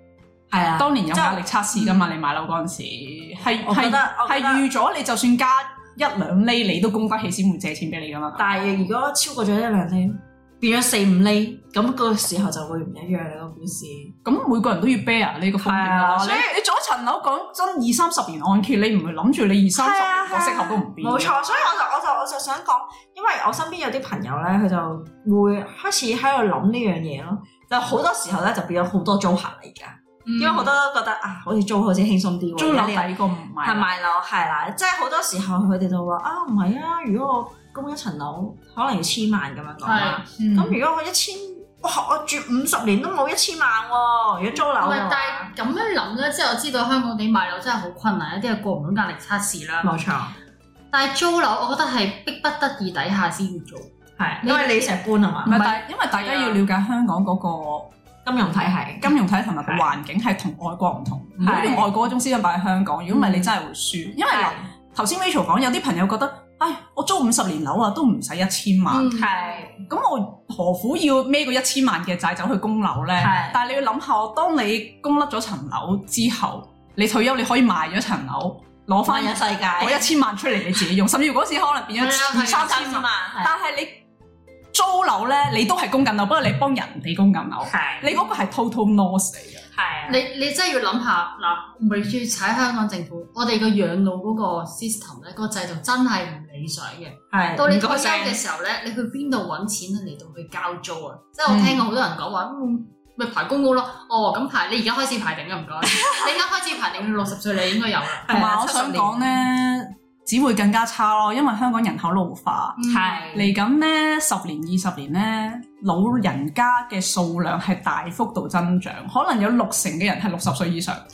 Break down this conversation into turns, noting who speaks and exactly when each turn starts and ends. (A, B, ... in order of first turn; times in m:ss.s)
0:00.5-0:02.0 A
0:00.8-0:08.5 B
0:03.6-0:04.6 A
0:08.4-0:14.1 A
0:14.2-0:21.4 B
0:15.6-0:16.6 A
0:19.7-0:45.5 A
0:30.2-0:30.7 C
0:32.6-0:33.9 B
0:39.8-0:40.2 C
0:40.4-0:40.8 B
0:44.8-0:49.9 C
0:49.8-0:50.3 A
0:50.9-0:56.6 C
0:54.2-0:55.6 A
0:55.4-0:57.9 B
0:58.2-0:59.8 A
0:59.0-1:09.1 B
1:01.4-1:01.8 C
1:01.4-1:01.9 A
1:03.1-1:03.5 A
1:04.3-1:04.7 A
1:08.9-1:09.3 C
1:09.1-1:09.8 A
1:09.9-1:24.0 B
1:13.2-1:13.6 A
1:19.0-1:20.1 A
1:22.0-1:22.8 C
1:22.4-1:23.5 A
1:24.7-1:29.6 B
1:27.6-1:28.2 A
1:29.7-1:30.2 A
1:30.1-1:49.1 C
1:37.3-1:38.4 A
1:41.5-1:41.8 B
1:48.3-1:49.0 A
1:48.3-1:52.8 B
1:52.8-1:53.3 C
1:52.9-1:53.6 A
1:53.3-2:01.0 B